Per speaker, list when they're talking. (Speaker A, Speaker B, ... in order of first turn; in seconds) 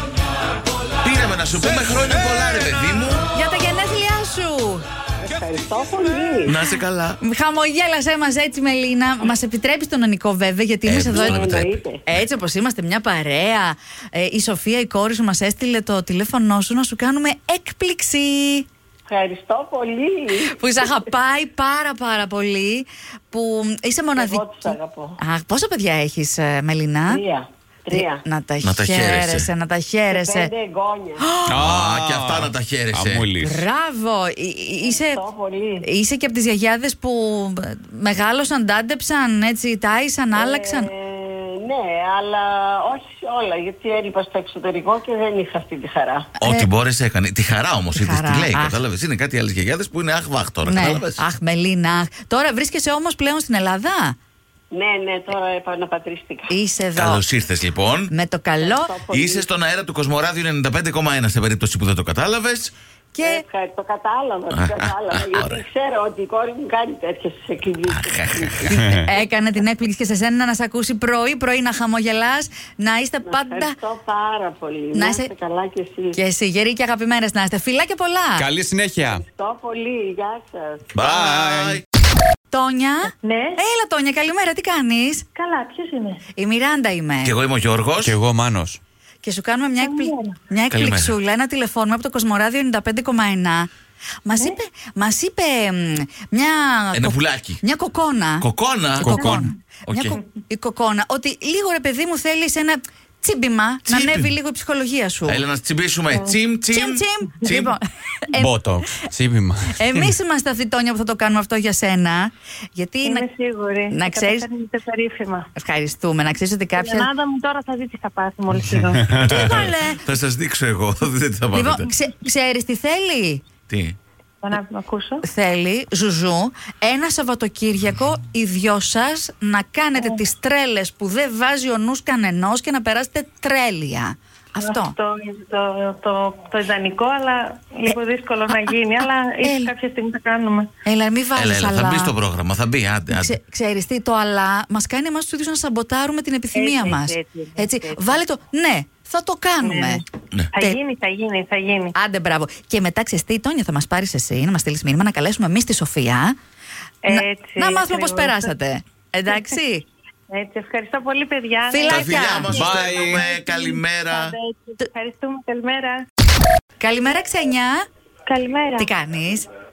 Speaker A: 1.0-3.2, 6.4-7.2, 10.8-11.8, 28.6-29.5, 31.5-33.3, 46.4-51.2, 57.0-58.1, 59.1-62.7, 64.5-65.6, 67.9-68.7, 80.9-81.8, 87.2-88.2, 90.7-91.2, 96.9-97.6, 98.4-99.2, 99.8-100.2, 103.8-104.3, 105.3-107.7, 119.2-121.9, 123.7-124.0, 141.3-143.4, 161.8-164.3
Speaker B: 3.3-4.8, 7.2-11.5, 12.1-18.6, 20.5-27.2, 27.9-30.5, 31.2-31.6, 33.4-35.2, 35.8-40.9, 46.4-46.7, 48.0-48.8, 50.6-54.1, 56.5-57.2, 58.1-58.9, 63.1-63.4, 68.9-73.8, 74.9-75.3, 76.1-78.5, 82.5-85.2, 86.3-87.3, 89.2-93.7, 94.2-98.5, 99.0-105.4, 106.7-108.5, 109.7-113.2, 113.9-114.5, 115.5-117.1, 119.2-120.0, 121.5-123.4, 125.2-134.9, 138.5-138.8, 139.4-139.7, 140.8-142.1, 143.1-150.0, 151.9-156.3, 157.1-159.8, 161.7-162.5, 166.8-167.8, 168.8-169.5
Speaker C: 5.2-6.6, 11.1-12.0, 19.1-20.9, 24.1-25.2, 27.1-28.2, 30.1-31.3, 34.8-35.8, 40.3-46.3, 54.7-56.5, 58.6-59.5, 63.2-68.7, 73.2-76.2, 79.1-80.9
Speaker D: 31.5-33.6, 68.7-69.1, 78.4-79.2, 81.0-81.8, 88.0-88.8, 99.0-99.5, 108.3-110.2, 119.1-119.5, 162.5-163.2
Speaker E: 83.2-83.6, 85.3-86.2, 89.8-90.3, 113.0-115.5, 116.8-119.2, 124.4-125.2, 134.6-140.7, 146.5-148.2, 149.6-150.0, 150.5-151.9, 157.0-158.5, 159.3-159.5, 160.3-166.0, 168.3-168.9